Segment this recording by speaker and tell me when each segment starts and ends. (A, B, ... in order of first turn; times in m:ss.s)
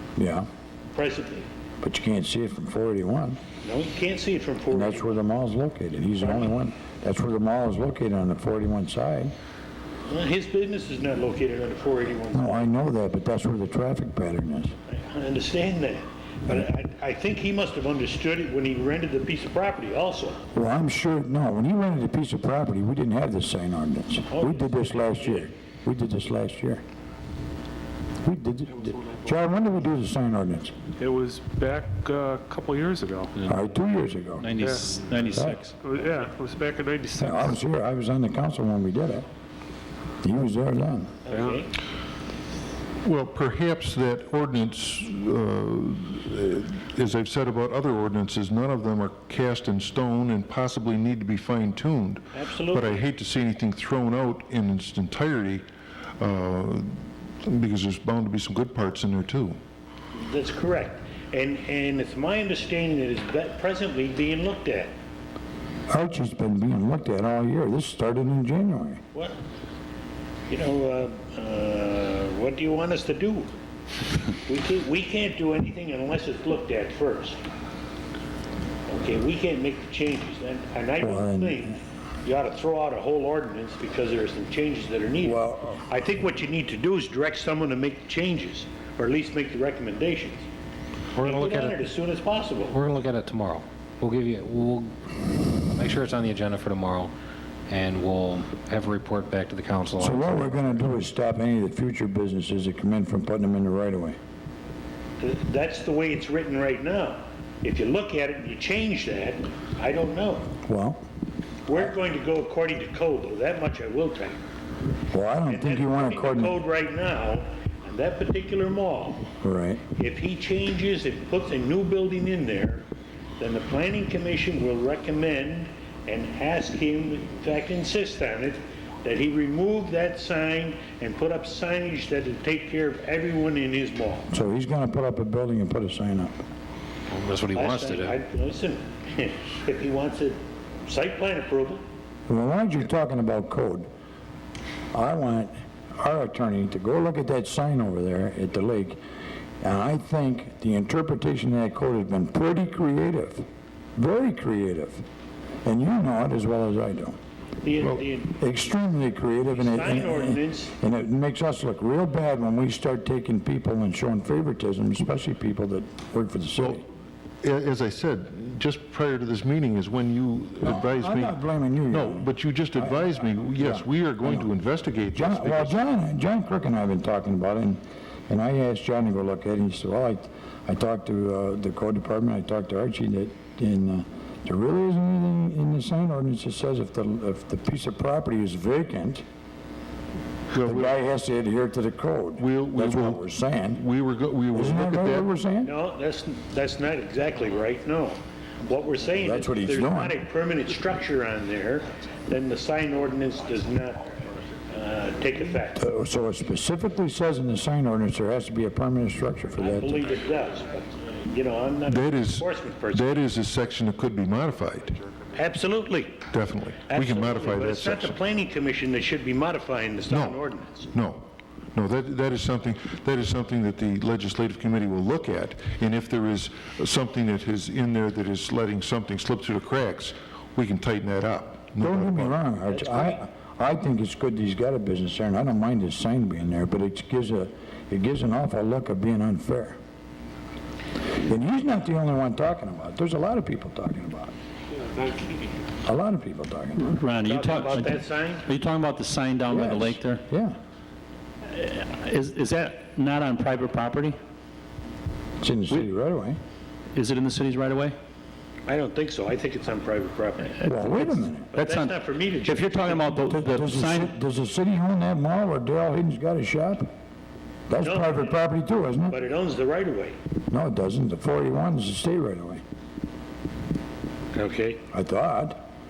0:00.2-0:00.5 A
0:00.9-0:01.5 B
0:01.8-0:03.4 A
0:03.6-0:05.2 B
0:04.7-0:09.3 A
0:06.2-0:06.5 B
0:10.1-0:12.7 B
0:12.3-0:14.7 A
0:14.9-0:20.4 B
0:20.5-0:26.8 A
0:24.3-0:25.5 B
0:28.2-0:30.7 A
0:31.0-0:33.3 C
0:33.5-0:34.6 A
0:34.6-0:37.6 C
0:35.3-0:35.6 A
0:37.2-0:39.3 A
0:40.2-0:41.2 A
0:41.3-0:41.7 B
0:41.3-0:41.6 C
0:43.0-0:55.6 D
0:52.3-0:53.1 B
0:56.2-0:56.9 D
0:57.4-0:59.6 D
1:00.2-1:04.9 B
1:05.9-1:09.0 A
1:09.1-1:09.4 B
1:10.5-1:13.5 B
1:14.5-1:17.4 B
1:18.9-1:30.5 B
1:21.0-1:21.7 A
1:25.2-1:25.8 A
1:31.2-1:31.8 E
1:31.2-1:32.8 B
1:32.7-1:34.9 E
1:35.6-1:37.1 E
1:37.7-1:40.6 E
1:40.0-1:44.2 A
1:45.2-1:50.5 B
1:50.7-1:51.0 A
1:51.7-1:54.4 B
1:55.1-1:56.6 A
1:55.5-1:59.2 B
1:59.4-1:59.8 A
1:59.9-2:02.9 B
2:03.4-2:14.3 B
2:14.3-2:16.3 A
2:17.1-2:18.2 E
2:17.5-2:21.8 B
2:22.3-2:23.9 A
2:24.9-2:29.0 A
2:29.6-2:33.4 A
2:34.0-2:35.0 A
2:35.6-2:37.2 A
2:37.6-2:38.4 B
2:38.4-2:46.8 A
2:39.5-2:40.7 B
2:47.4-2:51.4 D
2:50.6-2:54.5 A
2:51.9-2:55.8 D
2:55.1-3:09.2 A
3:10.5-3:11.0 D
3:10.6-3:13.8 A
3:12.4-3:15.3 D
3:14.5-3:15.7 A
3:15.6-3:24.1 B
3:19.2-3:20.2 A
3:24.7-3:25.8 B
3:25.8-3:30.1 A
3:29.6-3:33.2 B
3:31.9-3:35.0 D
3:35.3-3:36.2 B
3:36.3-3:38.2 D
3:36.9-3:40.9 B
3:40.1-3:52.4 D
3:51.8-3:59.8 A
4:01.2-4:04.3 A
4:04.9-4:05.3 B
4:05.8-4:07.0 A
4:06.8-4:10.2 F
4:07.2-4:08.5 B
4:09.5-4:10.6 A
4:11.5-4:14.2 F
4:15.4-4:16.4 A
4:16.9-4:18.0 F
4:18.7-4:20.9 B
4:20.6-4:21.5 A
4:21.5-4:23.2 B
4:21.5-4:24.1 F
4:23.3-4:26.9 A
4:27.7-4:29.2 A
4:27.8-4:28.4 B
4:29.1-4:30.2 B
4:30.5-4:32.6 A
4:34.3-4:34.8 B
4:34.9-4:35.6 A